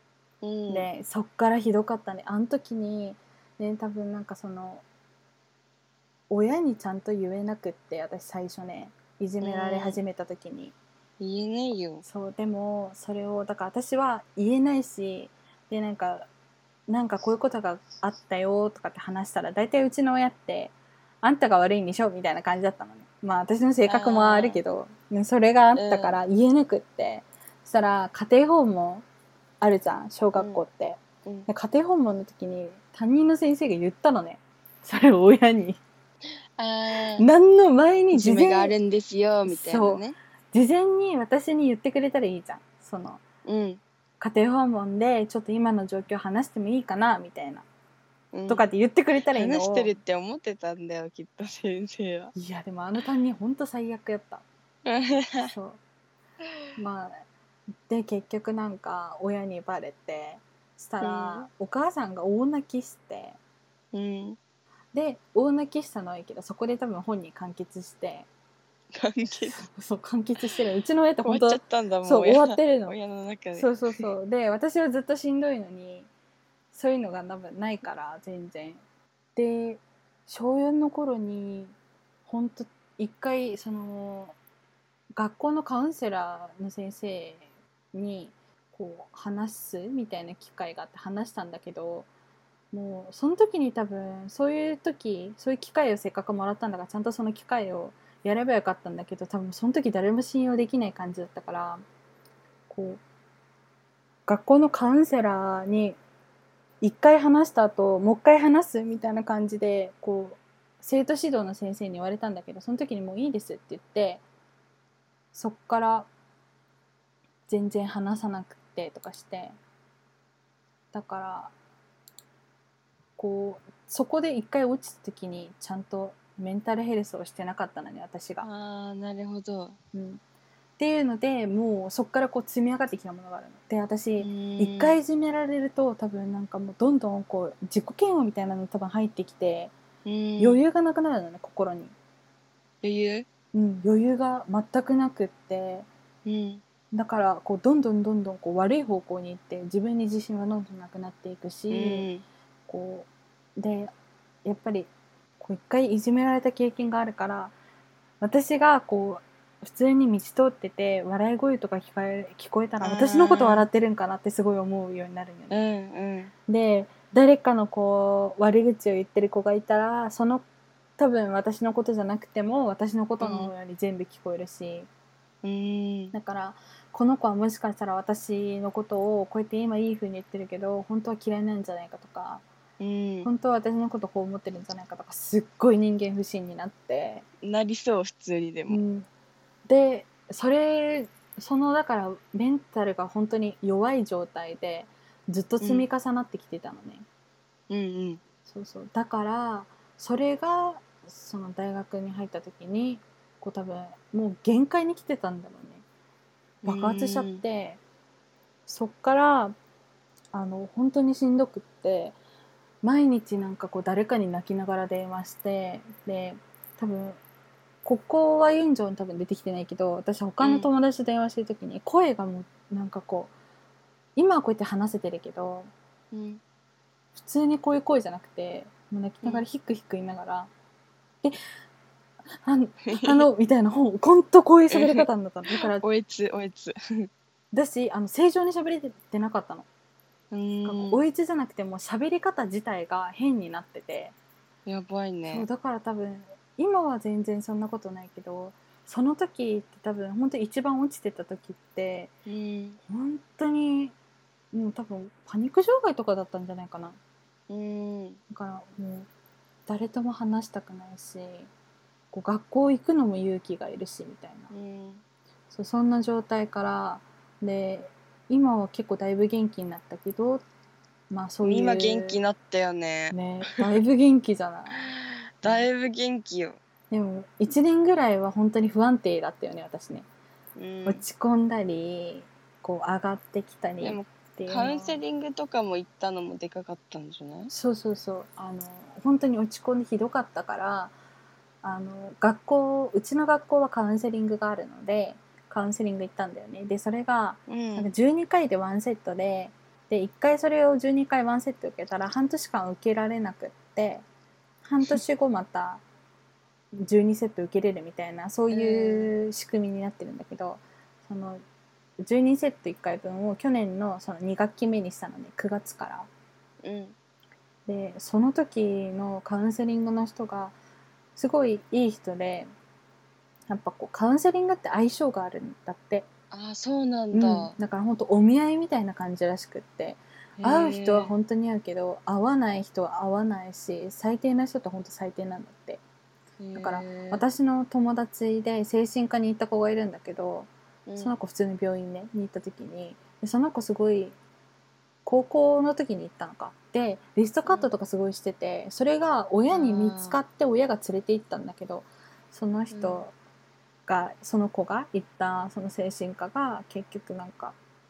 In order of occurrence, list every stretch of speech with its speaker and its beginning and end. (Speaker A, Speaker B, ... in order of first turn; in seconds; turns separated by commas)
Speaker A: 0.4-0.9, Speaker B: 0.7-4.8, Speaker B: 6.3-10.8, Speaker A: 9.4-10.0, Speaker A: 11.2-12.0, Speaker B: 12.0-16.3, Speaker B: 16.9-29.1, Speaker A: 23.9-24.6, Speaker A: 25.8-26.2, Speaker B: 29.6-35.8, Speaker A: 30.4-30.6, Speaker A: 36.6-37.3, Speaker B: 37.2-38.8, Speaker A: 38.1-40.2, Speaker B: 39.5-43.2, Speaker A: 43.5-43.8, Speaker B: 44.2-47.6, Speaker A: 48.3-48.7, Speaker B: 48.5-50.0, Speaker A: 49.3-52.3, Speaker B: 52.4-54.5, Speaker A: 54.9-55.5, Speaker B: 55.5-55.8, Speaker B: 56.8-57.2, Speaker B: 57.9-63.4, Speaker A: 61.0-61.5, Speaker A: 63.9-64.4, Speaker B: 64.9-68.3, Speaker A: 68.9-69.7, Speaker B: 69.5-73.0, Speaker A: 71.2-74.1, Speaker B: 73.5-76.1, Speaker B: 76.7-78.8, Speaker B: 79.4-81.7, Speaker B: 82.3-84.4, Speaker B: 85.2-92.1, Speaker B: 92.7-101.8, Speaker B: 102.7-103.0, Speaker B: 104.3-106.0, Speaker B: 106.8-114.2, Speaker B: 115.3-116.1, Speaker B: 117.5-119.6, Speaker B: 120.9-121.5, Speaker B: 123.2-128.5, Speaker A: 128.4-129.8, Speaker B: 129.9-130.2, Speaker B: 130.8-139.7, Speaker A: 134.2-135.0, Speaker A: 140.1-140.6, Speaker B: 140.4-141.9, Speaker A: 142.8-143.3, Speaker B: 143.5-145.9, Speaker A: 146.2-146.6, Speaker B: 146.9-152.1, Speaker A: 151.7-152.2, Speaker B: 152.7-153.9, Speaker B: 154.4-157.5, Speaker B: 158.2-165.6, Speaker A: 162.8-163.7, Speaker A: 165.5-166.3, Speaker B: 166.5-170.4, Speaker B: 171.0-174.9, Speaker A: 173.2-173.5, Speaker A: 175.4-176.1, Speaker B: 176.1-182.4, Speaker A: 182.8-183.3, Speaker B: 183.2-187.2, Speaker A: 187.4-188.8, Speaker B: 188.7-189.1, Speaker B: 189.7-197.1, Speaker A: 195.6-195.9, Speaker A: 197.7-198.2, Speaker B: 198.5-205.8, Speaker A: 206.6-207.4, Speaker B: 206.7-207.8, Speaker B: 208.7-209.5, Speaker B: 210.3-212.2, Speaker B: 212.8-217.2, Speaker B: 217.8-223.3, Speaker A: 220.4-220.7, Speaker B: 224.2-225.7, Speaker A: 226.1-226.4, Speaker B: 227.2-230.5, Speaker B: 232.4-235.8, Speaker A: 234.7-235.1, Speaker A: 235.7-237.1, Speaker B: 237.5-239.7, Speaker A: 240.3-241.0, Speaker B: 240.6-244.1, Speaker A: 244.7-245.5, Speaker B: 245.3-252.1, Speaker A: 252.3-252.8, Speaker B: 252.9-253.9, Speaker B: 254.5-257.0, Speaker A: 257.5-258.2, Speaker B: 258.3-259.1, Speaker B: 259.7-261.5, Speaker B: 262.1-264.5, Speaker A: 264.5-265.0, Speaker B: 265.5-270.4, Speaker B: 271.1-272.2, Speaker A: 271.4-273.2, Speaker B: 273.1-274.9, Speaker A: 274.8-276.6, Speaker B: 276.9-280.1, Speaker A: 280.6-281.0, Speaker B: 280.9-285.0, Speaker A: 283.8-287.5, Speaker B: 287.5-290.9, Speaker B: 291.6-304.0, Speaker A: 297.5-297.9, Speaker B: 304.6-305.8, Speaker B: 306.8-311.4, Speaker A: 308.5-309.1, Speaker B: 312.0-316.1, Speaker A: 316.6-316.9, Speaker B: 317.7-320.5, Speaker B: 321.2-322.5, Speaker B: 323.5-326.1, Speaker A: 326.3-327.6, Speaker B: 327.1-335.8, Speaker A: 330.4-331.1, Speaker A: 336.4-337.2, Speaker B: 336.6-344.1, Speaker A: 340.9-341.1, Speaker B: 345.1-353.1, Speaker A: 349.5-350.2, Speaker A: 352.7-353.0, Speaker B: 353.9-357.6